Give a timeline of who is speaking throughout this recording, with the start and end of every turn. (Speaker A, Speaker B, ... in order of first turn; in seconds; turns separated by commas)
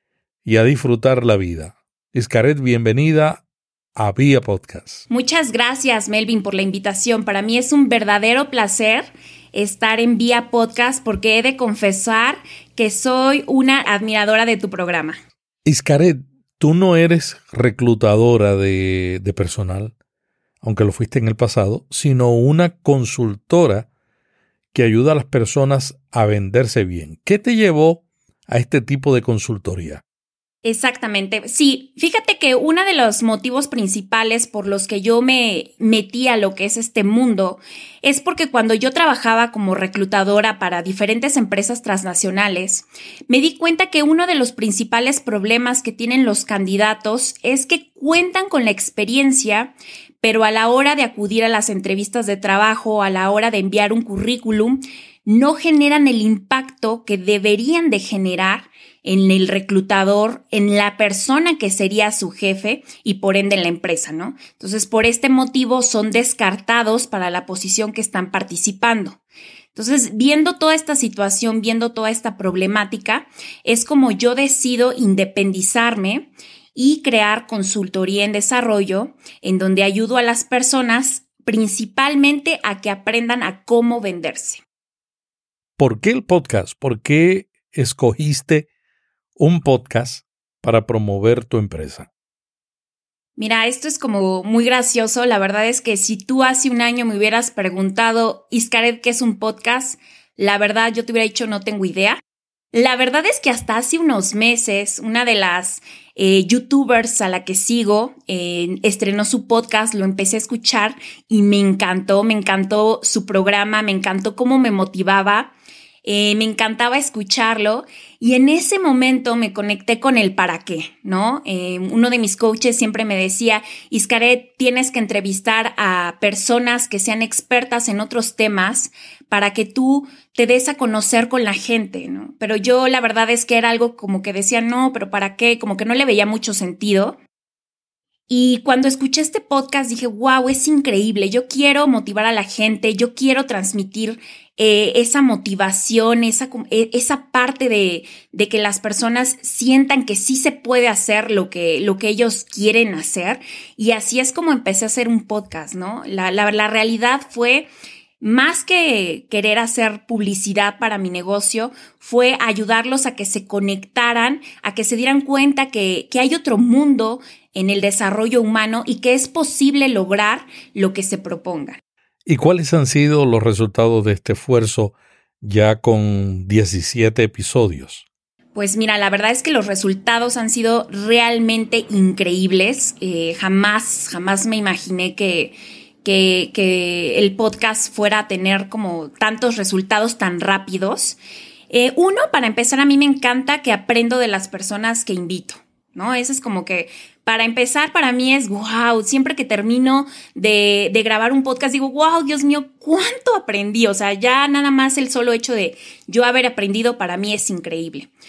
Speaker A: 0.5-3.4, Speaker A: 4.0-5.1, Speaker B: 5.1-15.2, Speaker A: 15.7-19.9, Speaker A: 20.6-23.9, Speaker A: 24.7-30.0, Speaker B: 30.6-69.2, Speaker B: 69.7-84.6, Speaker A: 85.8-88.7, Speaker A: 89.4-92.1, Speaker B: 93.4-102.2, Speaker B: 102.7-115.5, Speaker B: 116.0-137.2, Speaker B: 138.3-157.7, Speaker B: 158.2-171.8, Speaker A: 172.3-178.0, Speaker B: 178.6-191.2, Speaker B: 191.7-208.1